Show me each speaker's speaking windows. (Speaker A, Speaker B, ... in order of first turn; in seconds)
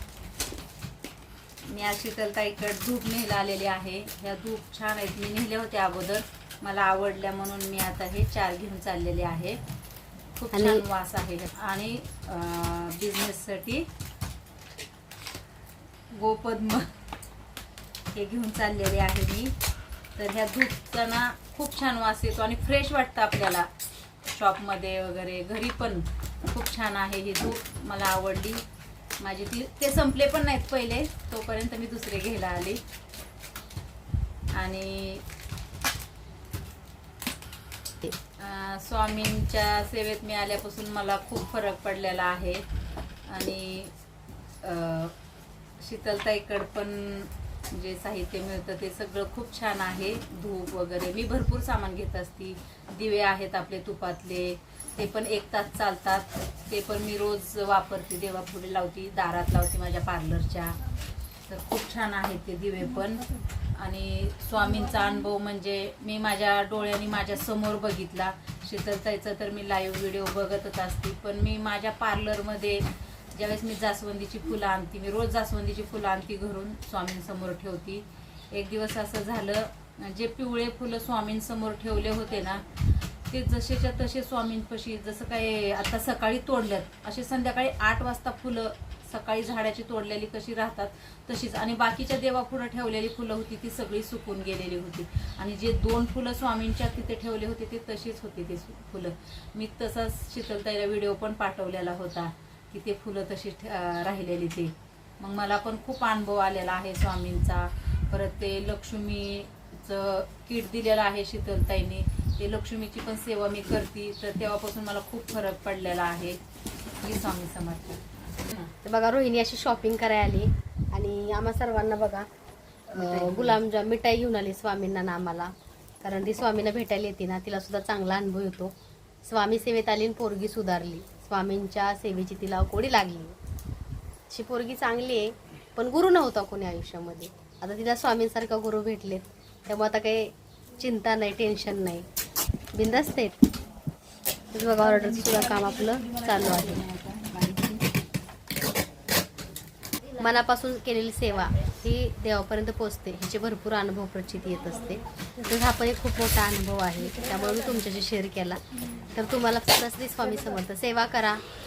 Speaker A: 1.7-9.6, 10.4-13.9, 16.1-16.9, 18.1-19.5, 20.1-23.7, 24.3-28.6, 29.2-32.8, 34.5-35.2, 38.4-42.6, 43.3-43.9, 44.6-45.1, 45.8-60.8, 61.5-63.2, 63.7-82.7, 83.3-116.4, 117.0-118.7, 122.9-123.6, 147.0-147.8
Speaker B: 10.5-10.8, 118.8-122.3, 122.9-125.5, 126.0-128.7, 129.2-133.3, 134.3-142.1, 142.7-143.4, 144.5-146.8, 150.2-161.4